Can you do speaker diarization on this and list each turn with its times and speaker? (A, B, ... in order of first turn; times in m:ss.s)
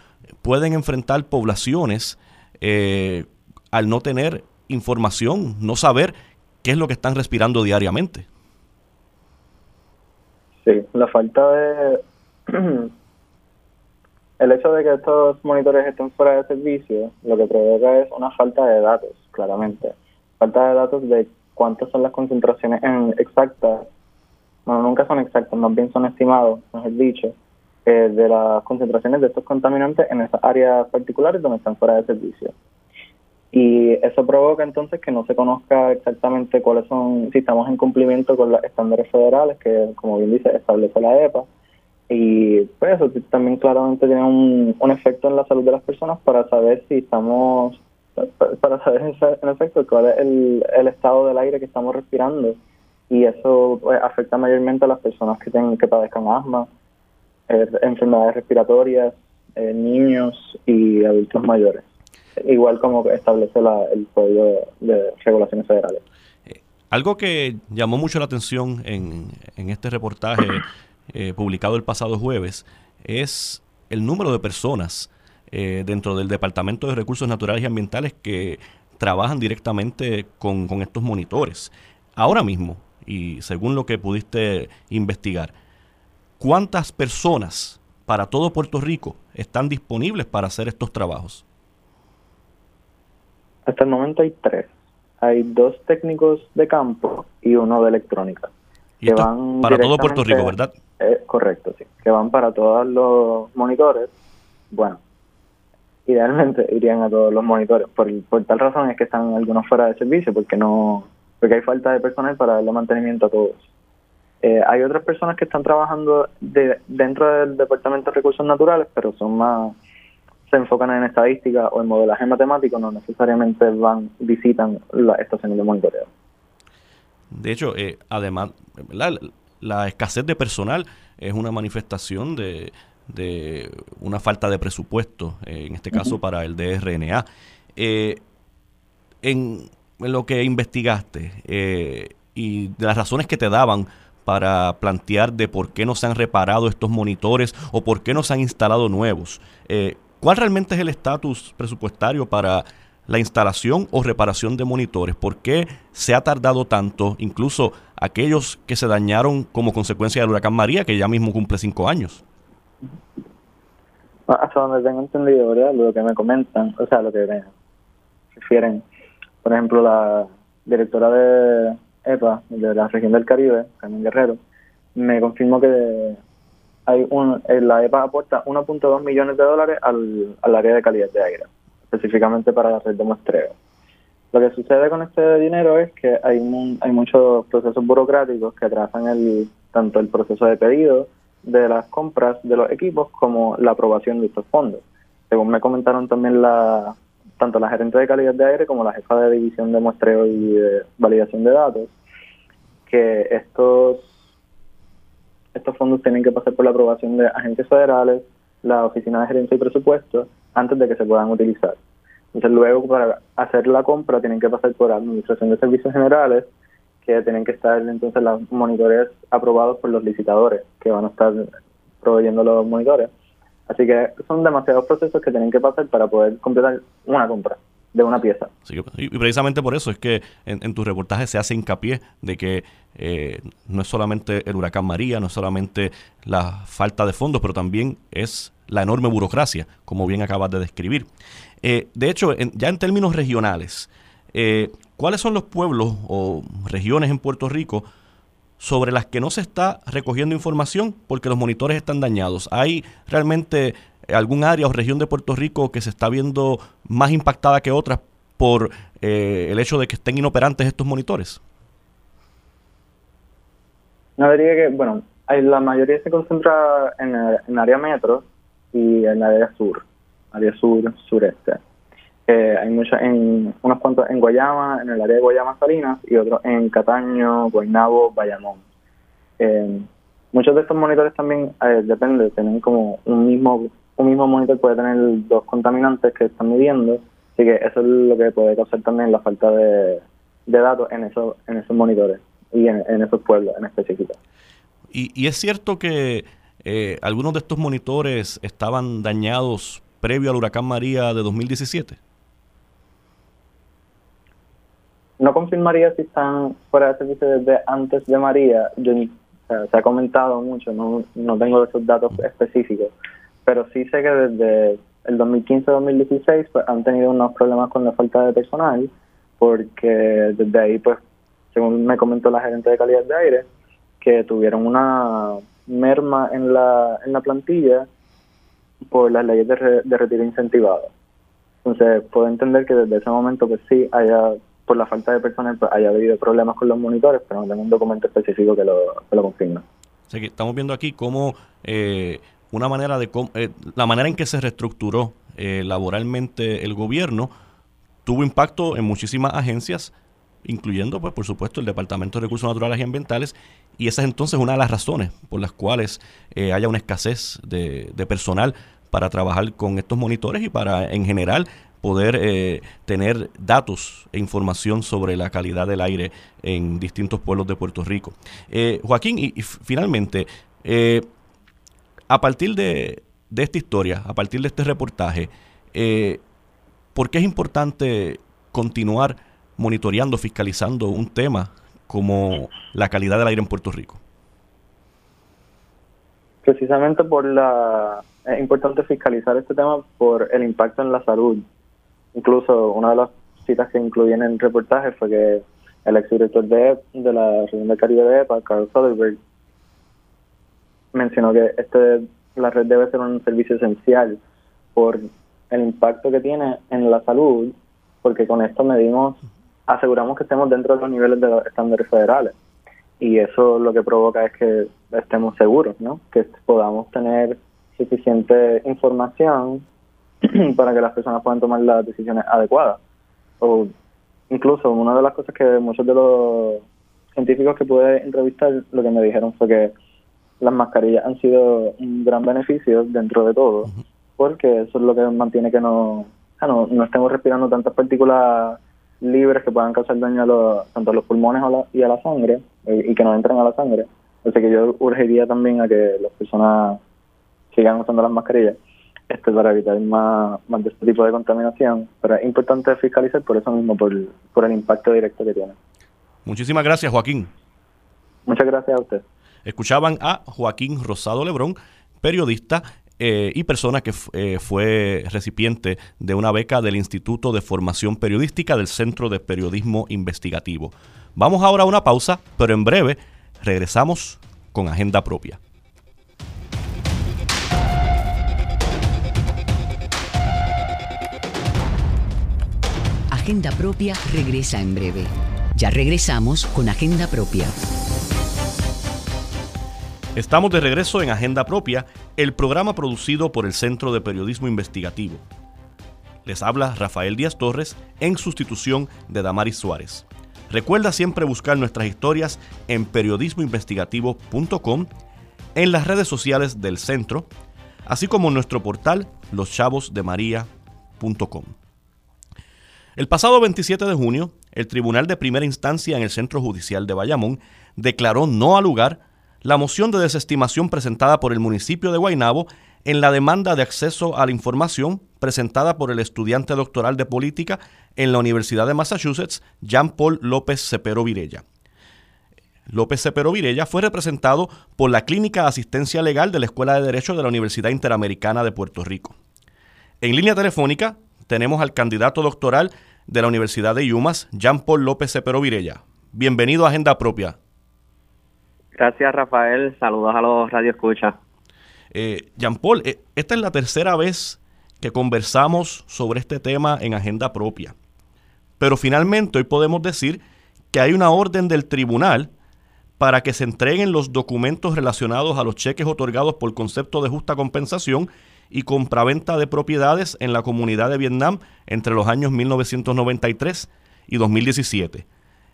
0:00.4-0:08.3 A
0:10.6-0:12.9 B
0:14.4-0:23.9 B
0:24.7-0:32.5 B
0:33.5-0:41.5 B
0:42.1-0:52.6 B
0:53.1-0:56.7 B
0:57.5-1:01.8 B
1:02.4-1:06.0 B
1:06.5-1:25.5 A
1:26.4-1:31.4 A
1:33.7-1:38.5 B
1:39.0-1:40.7 A
1:39.1-1:44.1 B
1:44.7-1:45.0 B
1:46.1-1:53.6 B
1:54.4-1:59.8 B
2:00.5-2:06.1 B
2:07.3-2:17.2 A
2:17.8-2:18.2 A
2:19.2-2:42.2 A
2:44.3-2:47.5 B
2:48.4-2:48.8 B
2:49.4-2:54.4 B
2:55.0-2:56.2 B
2:56.9-3:03.6 B
3:04.3-3:22.0 B
3:22.9-3:24.1 B
3:25.6-3:31.8 B
3:32.3-3:36.5 B
3:37.0-3:41.5 B
3:42.0-3:43.1 B
3:43.7-3:48.5 B
3:48.7-4:01.1 A
4:01.6-4:07.9 A
4:08.6-4:21.4 A
4:24.2-4:31.6 B
4:32.3-4:38.6 B
4:39.4-4:54.2 B
4:54.9-5:02.0 A
5:05.2-5:12.9 B
5:13.4-5:21.0 B
5:21.5-5:23.5 B
5:24.0-5:27.9 B
5:28.9-5:30.9 B
5:31.6-5:39.6 B
5:40.1-5:47.3 A
5:48.0-5:49.9 A
5:50.4-6:11.1 A
6:12.1-6:16.2 A
6:17.0-6:24.0 A
6:26.4-6:31.4 B
6:32.1-6:39.2 B
6:40.9-6:44.2 B
6:44.7-6:52.3 B
6:53.0-6:59.6 B
7:00.2-7:02.8 B
7:03.4-7:03.7 B
7:04.3-7:06.6 B
7:07.2-7:09.7 B
7:10.4-7:26.8 B
7:27.5-7:28.6 B
7:29.1-7:35.6 B
7:36.3-7:37.3 A
7:38.3-7:39.0 B
7:39.4-7:55.4 A
8:03.1-8:07.6 C
8:10.1-8:15.2 A
8:16.2-8:24.9 A
8:25.6-8:27.3 A
8:27.9-8:31.6 A
8:33.0-8:51.4 A
8:52.7-8:59.2 A
9:00.0-9:07.4 A
9:08.8-9:11.2 D
9:11.9-9:17.7 A
9:18.6-9:20.2 A
9:20.7-9:22.3 A
9:23.0-9:35.1 A